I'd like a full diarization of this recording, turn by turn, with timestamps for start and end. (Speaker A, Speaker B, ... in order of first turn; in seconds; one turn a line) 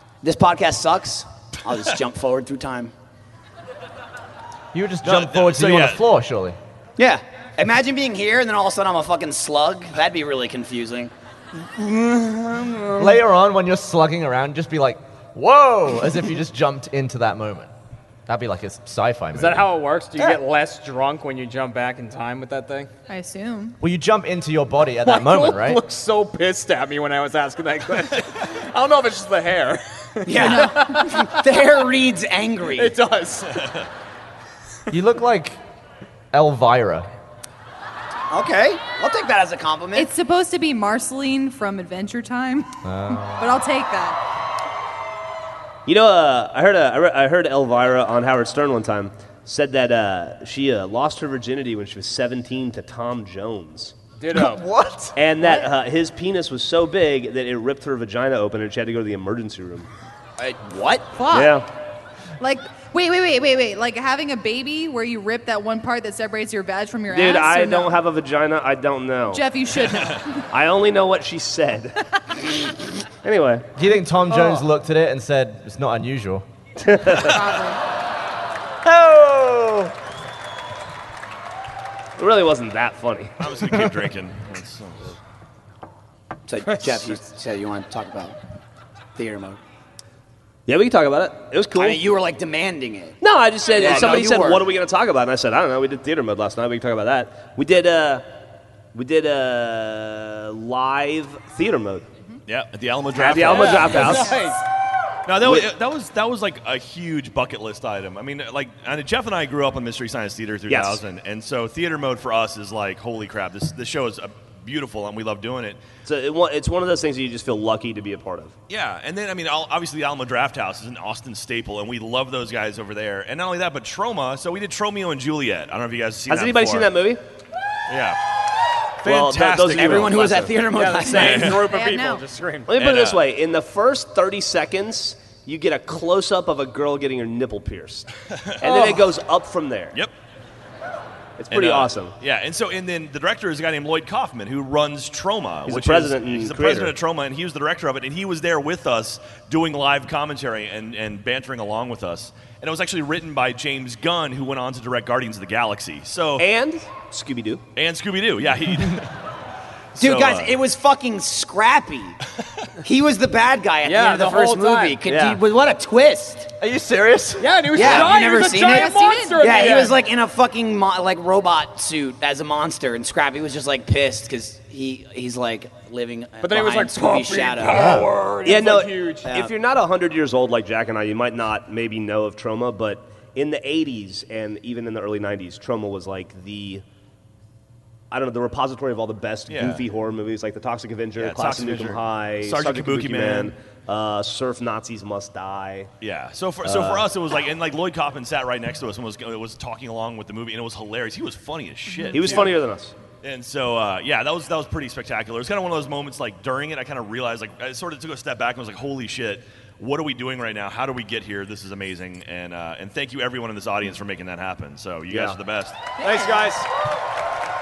Speaker A: 0.2-2.9
Speaker B: 4.7-6.6
Speaker C: 5.0-6.0
Speaker A: 7.0-13.2
Speaker B: 13.0-17.7
Speaker B: 18.2-19.7
Speaker D: 19.3-22.9
Speaker E: 23.1-23.8
Speaker B: 23.8-25.8
Speaker D: 25.0-31.2
Speaker A: 30.2-33.0
Speaker E: 30.4-30.8
Speaker D: 32.7-33.7
Speaker B: 34.9-35.6
Speaker B: 36.3-37.1
Speaker A: 38.3-40.1
Speaker E: 39.9-44.2
Speaker B: 42.8-43.5
Speaker F: 45.9-53.9
Speaker D: 54.2-54.7
Speaker B: 54.3-55.1
Speaker F: 55.1-59.9
Speaker E: 55.4-55.7
Speaker A: 60.4-61.1
Speaker E: 61.1-61.6
Speaker F: 61.3-61.6
Speaker E: 62.4-68.0
Speaker F: 67.1-69.4
Speaker E: 69.3-70.4
Speaker F: 70.5-72.0
Speaker F: 73.2-73.7
Speaker B: 73.8-76.4
Speaker F: 76.8-77.4
Speaker E: 77.0-77.8
Speaker B: 78.8-79.9
Speaker F: 82.2-83.3
Speaker C: 83.4-85.2
Speaker A: 86.5-88.4
Speaker A: 89.2-89.6
Speaker F: 90.7-92.0
Speaker A: 91.7-93.2
Speaker F: 93.2-98.2
Speaker A: 93.7-94.7
Speaker F: 98.9-102.0
Speaker C: 102.5-104.3
Speaker F: 103.1-104.4
Speaker D: 103.2-104.6
Speaker C: 105.2-115.8
Speaker F: 105.4-105.7
Speaker F: 110.7-111.0
Speaker F: 116.0-118.5
Speaker C: 118.7-126.9
Speaker F: 126.3-127.2
Speaker C: 127.9-128.2
Speaker C: 129.0-130.3
Speaker F: 129.0-130.7
Speaker A: 129.7-131.6
Speaker D: 130.6-132.7
Speaker C: 131.1-131.6
Speaker E: 131.6-132.2
Speaker F: 132.7-138.1
Speaker C: 132.8-133.2
Speaker C: 138.4-139.0
Speaker F: 138.6-140.0
Speaker F: 141.4-142.1
Speaker C: 141.5-156.4
Speaker F: 145.7-146.9
Speaker F: 156.4-157.6
Speaker C: 157.8-159.1
Speaker C: 159.9-160.6
Speaker A: 160.0-162.2
Speaker A: 162.8-166.5
Speaker D: 163.8-165.0
Speaker F: 165.0-165.4
Speaker B: 166.6-168.0
Speaker D: 167.4-170.1
Speaker A: 167.7-178.7
Speaker E: 168.5-169.6
Speaker D: 176.4-179.4
Speaker F: 178.4-186.8
Speaker F: 188.1-195.9
Speaker C: 189.5-189.8
Speaker C: 191.2-193.5
Speaker C: 196.0-202.5
Speaker F: 196.6-197.1
Speaker E: 201.9-202.4
Speaker F: 202.1-202.9
Speaker C: 203.2-215.8
Speaker F: 215.1-215.4
Speaker E: 216.0-216.5
Speaker D: 216.0-216.7